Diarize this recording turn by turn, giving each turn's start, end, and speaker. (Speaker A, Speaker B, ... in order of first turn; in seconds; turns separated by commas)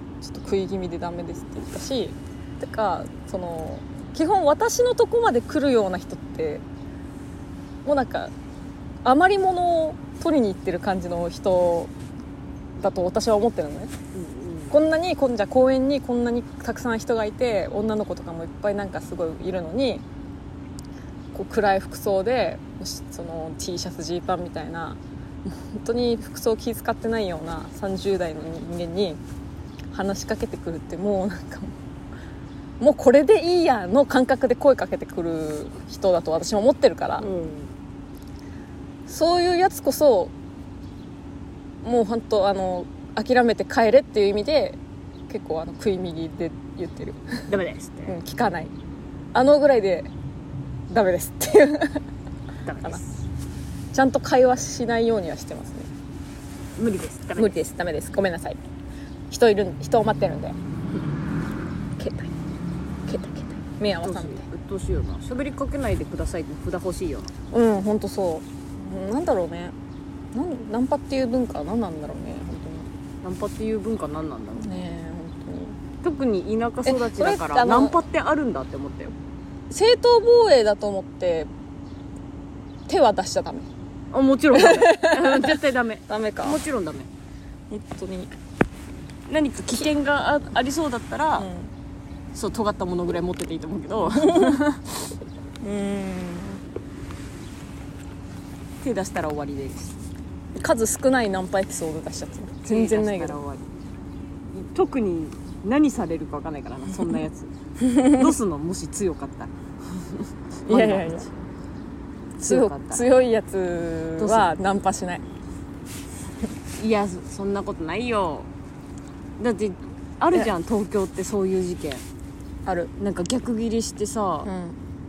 Speaker A: 0.2-6.6, Speaker A: 7.8-8.3, Speaker A: 9.0-11.9, Speaker A: 12.8-13.9, Speaker B: 14.1-14.8, Speaker A: 14.7-20.0, Speaker A: 21.3-29.2, Speaker A: 29.9-31.7, Speaker A: 32.8-37.3, Speaker B: 37.2-37.7, Speaker A: 39.1-40.3, Speaker A: 41.8-47.5, Speaker B: 47.5-48.2, Speaker A: 48.1-48.7, Speaker A: 49.3-50.1, Speaker A: 50.9-52.0, Speaker B: 52.6-53.2, Speaker A: 53.9-55.9, Speaker B: 56.8-57.6, Speaker A: 57.4-58.6, Speaker A: 59.3-60.6, Speaker A: 62.0-62.3, Speaker A: 63.1-64.5, Speaker B: 64.0-67.3, Speaker A: 67.5-69.8, Speaker A: 70.3-72.9, Speaker B: 73.2-74.7, Speaker A: 74.6-75.8, Speaker B: 76.0-79.1, Speaker A: 76.9-78.0, Speaker A: 79.7-81.5, Speaker A: 82.9-83.7, Speaker B: 84.1-87.1, Speaker A: 84.5-86.6, Speaker A: 87.7-88.3, Speaker B: 89.3-91.5, Speaker A: 91.4-91.7, Speaker B: 92.3-94.7, Speaker A: 94.1-94.8, Speaker A: 95.6-96.6, Speaker B: 98.8-99.9, Speaker A: 100.6-103.4, Speaker B: 102.7-103.6, Speaker B: 104.5-111.3, Speaker A: 107.8-108.3, Speaker A: 110.7-111.3, Speaker A: 112.4-115.2, Speaker B: 112.4-113.1, Speaker B: 114.2-114.5, Speaker B: 116.8-118.5, Speaker B: 119.4-122.0, Speaker A: 122.7-122.9, Speaker B: 123.0-124.5, Speaker A: 124.5-124.8